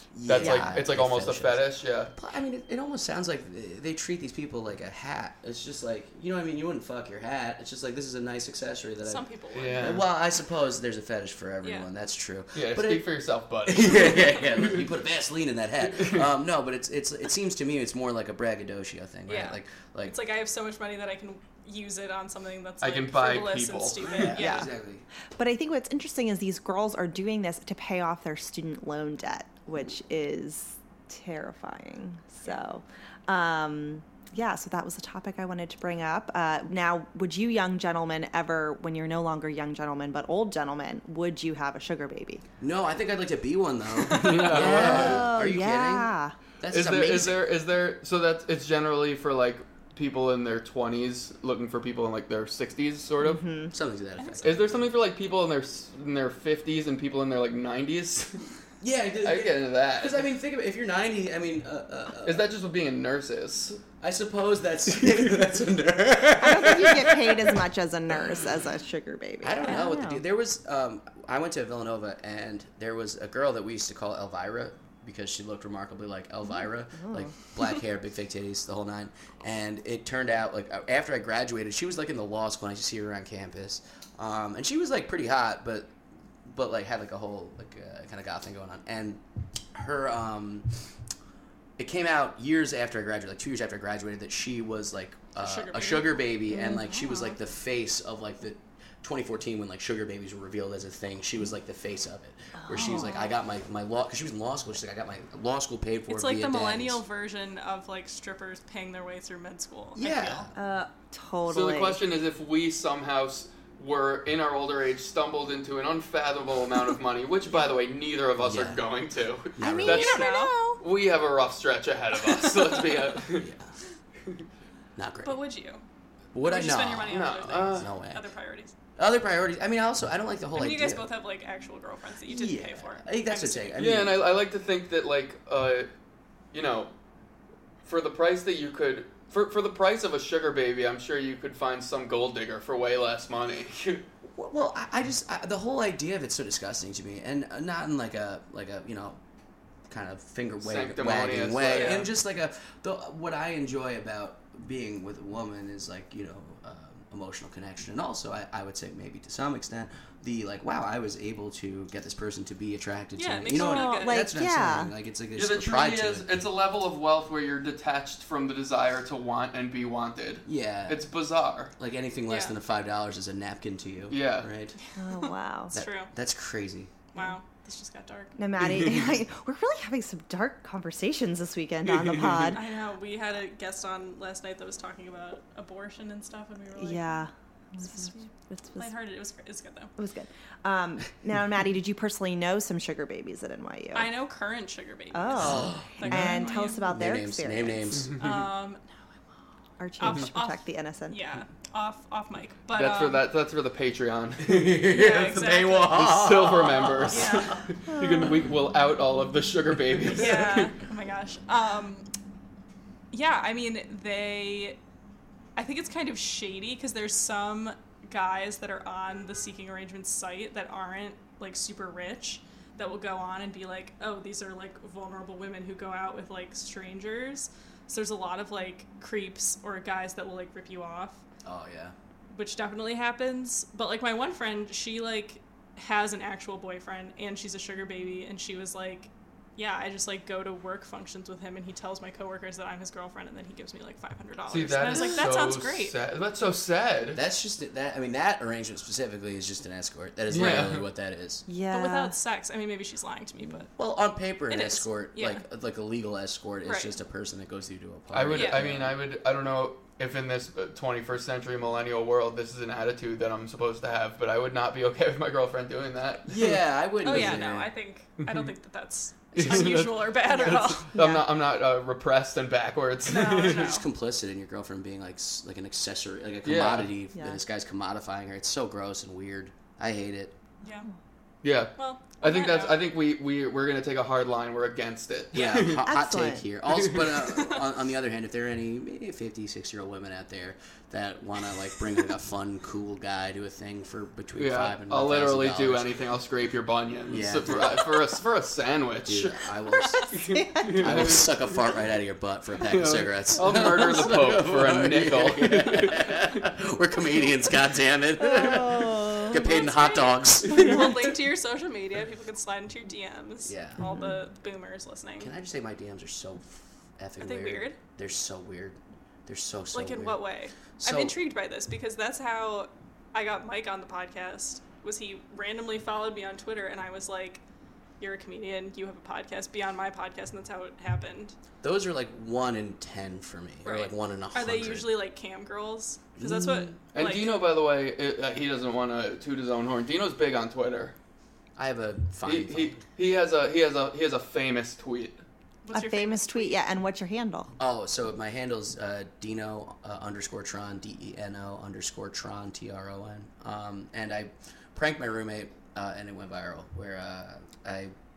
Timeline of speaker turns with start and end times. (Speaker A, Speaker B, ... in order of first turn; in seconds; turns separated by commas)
Speaker A: 0.1-9.2, Speaker B: 0.2-2.1, Speaker C: 0.4-0.8, Speaker D: 9.0-9.9, Speaker B: 9.6-10.1, Speaker A: 9.8-13.1, Speaker D: 11.6-11.9, Speaker B: 12.6-14.9, Speaker A: 13.6-20.2, Speaker B: 15.9-16.3, Speaker D: 19.3-24.7, Speaker B: 22.8-24.3, Speaker A: 24.0-25.1, Speaker C: 24.4-24.7, Speaker C: 25.4-42.4, Speaker A: 42.6-47.5, Speaker D: 44.0-44.6, Speaker B: 44.1-45.3, Speaker C: 44.5-46.4, Speaker B: 46.7-53.4, Speaker C: 53.2-53.8, Speaker A: 53.7-54.9, Speaker D: 54.2-54.7, Speaker B: 54.4-58.5, Speaker A: 58.8-62.5, Speaker B: 59.2-60.2, Speaker B: 62.2-63.9, Speaker A: 64.0-67.6, Speaker B: 65.0-65.4, Speaker C: 66.3-70.2, Speaker A: 69.4-85.9, Speaker D: 69.6-69.9, Speaker C: 76.5-77.3, Speaker A: 86.5-89.2, Speaker A: 89.7-90.7, Speaker A: 91.8-107.0, Speaker D: 95.4-96.2, Speaker C: 96.5-97.3, Speaker C: 102.6-103.3, Speaker D: 102.8-103.3, Speaker D: 106.1-110.5, Speaker A: 110.0-110.5, Speaker C: 110.5-112.0, Speaker B: 111.5-123.5, Speaker A: 118.4-118.8, Speaker A: 119.6-120.1, Speaker C: 119.6-120.8, Speaker D: 119.9-120.5, Speaker A: 123.3-123.8, Speaker A: 125.0-125.4, Speaker D: 125.2-125.8, Speaker A: 126.3-128.2, Speaker D: 126.4-128.7, Speaker B: 127.1-127.9, Speaker A: 129.0-131.1, Speaker D: 130.5-133.8, Speaker A: 132.3-134.2, Speaker B: 133.8-135.9, Speaker B: 136.5-136.9, Speaker B: 137.8-144.0, Speaker A: 144.2-149.2, Speaker A: 149.9-166.3, Speaker B: 150.6-152.1, Speaker D: 163.2-164.3, Speaker C: 163.5-164.9, Speaker B: 165.3-171.7, Speaker A: 170.5-171.1, Speaker A: 171.8-174.8, Speaker D: 172.3-172.6, Speaker B: 174.1-174.5, Speaker D: 174.9-176.1, Speaker C: 175.0-175.8, Speaker A: 175.7-176.9, Speaker D: 177.1-178.3, Speaker C: 178.4-182.6, Speaker B: 181.9-182.5, Speaker D: 182.5-187.2, Speaker C: 186.8-188.9, Speaker D: 187.8-189.9, Speaker C: 190.0-194.1, Speaker D: 193.9-196.9, Speaker C: 195.1-198.1, Speaker A: 195.4-198.2, Speaker D: 198.2-198.9, Speaker C: 199.8-201.2, Speaker D: 200.0-203.2, Speaker B: 202.7-204.8, Speaker A: 204.4-207.6, Speaker D: 204.9-206.0, Speaker B: 205.9-210.7, Speaker D: 207.1-207.6, Speaker C: 207.9-208.3, Speaker D: 210.1-212.1, Speaker D: 213.1-214.8, Speaker D: 215.6-231.2, Speaker A: 231.4-231.9, Speaker D: 232.3-246.0, Speaker B: 244.5-247.2, Speaker A: 247.1-251.5, Speaker B: 250.3-250.9, Speaker C: 251.5-252.2, Speaker D: 251.7-253.7, Speaker A: 253.8-259.0, Speaker D: 254.5-255.4, Speaker D: 256.6-256.9, Speaker B: 258.1-267.4, Speaker D: 258.3-258.6, Speaker A: 266.3-267.7, Speaker D: 267.0-270.9, Speaker B: 268.2-268.5, Speaker B: 269.3-273.8, Speaker C: 270.3-271.2, Speaker D: 273.1-273.9, Speaker A: 273.4-280.4, Speaker B: 276.4-277.0, Speaker C: 277.1-277.4, Speaker D: 280.6-280.9, Speaker B: 281.4-285.9, Speaker D: 281.8-282.9, Speaker A: 285.3-295.9, Speaker C: 285.6-286.4, Speaker B: 286.7-287.2, Speaker D: 287.3-287.6, Speaker B: 294.4-301.4, Speaker A: 297.1-298.0, Speaker A: 299.1-300.2, Speaker C: 300.3-300.9, Speaker A: 300.8-311.1, Speaker B: 302.6-306.3, Speaker C: 308.2-309.5, Speaker D: 309.3-315.3, Speaker A: 313.4-313.8, Speaker C: 313.8-314.2, Speaker A: 315.2-320.2, Speaker D: 317.2-317.8, Speaker D: 319.7-327.4, Speaker A: 320.8-321.1, Speaker D: 328.0-331.4, Speaker A: 331.6-334.9, Speaker D: 333.6-337.3, Speaker A: 336.2-336.8, Speaker B: 336.9-340.9, Speaker A: 341.6-342.8, Speaker B: 342.2-345.2, Speaker D: 345.6-346.6, Speaker C: 345.7-347.5, Speaker A: 347.6-357.9